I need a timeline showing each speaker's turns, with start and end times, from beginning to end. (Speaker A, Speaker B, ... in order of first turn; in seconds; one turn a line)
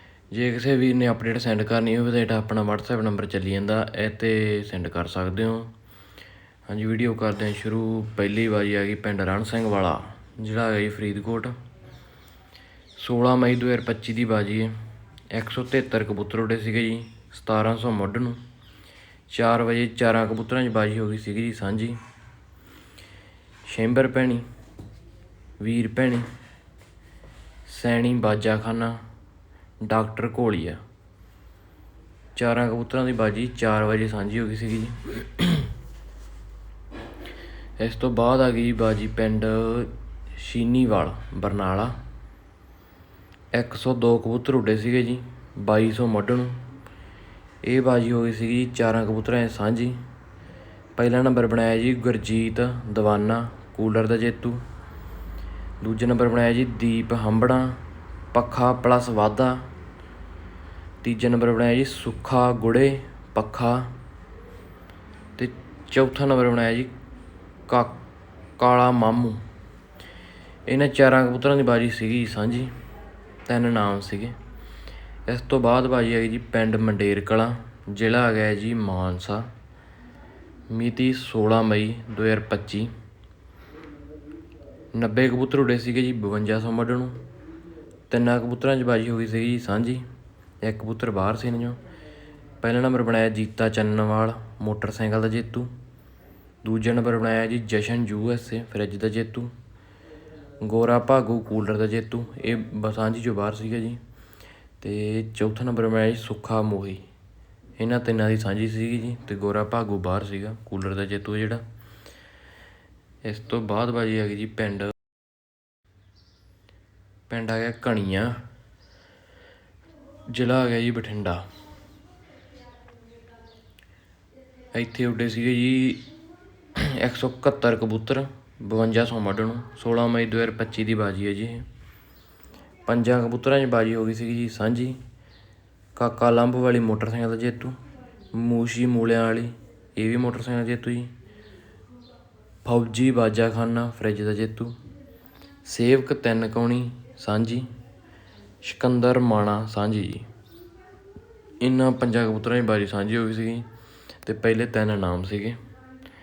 Speaker A: 0.3-5.7
Speaker A: 6.7-11.6
Speaker A: 13.0-14.8
Speaker A: 15.3-18.4
Speaker A: 19.3-22.0
Speaker A: 23.7-24.4
Speaker A: 25.6-26.3
Speaker A: 27.7-29.0
Speaker A: 29.8-30.8
Speaker A: 32.4-35.7
Speaker A: 37.8-42.0
Speaker A: 43.5-46.6
Speaker A: 47.6-50.0
Speaker A: 51.0-54.6
Speaker A: 55.8-57.8
Speaker A: 58.3-59.7
Speaker A: 61.0-64.0
Speaker A: 65.4-66.9
Speaker A: 67.7-68.0
Speaker A: 68.6-69.4
Speaker A: 70.7-72.7
Speaker A: 73.5-74.4
Speaker A: 75.3-79.5
Speaker A: 80.7-82.9
Speaker A: 85.0-87.2
Speaker A: 88.1-90.0
Speaker A: 90.6-91.8
Speaker A: 92.6-95.7
Speaker A: 96.6-99.5
Speaker A: 100.6-104.0
Speaker A: 104.8-107.0
Speaker A: 107.8-111.6
Speaker A: 113.2-114.9
Speaker A: 117.3-118.4
Speaker A: 120.3-121.5
Speaker A: 124.7-126.1
Speaker A: 126.8-131.7
Speaker A: 132.9-135.0
Speaker A: 136.0-137.8
Speaker A: 138.3-141.1
Speaker A: 142.6-144.8
Speaker A: 145.7-147.7
Speaker A: 148.6-150.3
Speaker A: 151.6-153.7
Speaker A: 154.2-155.6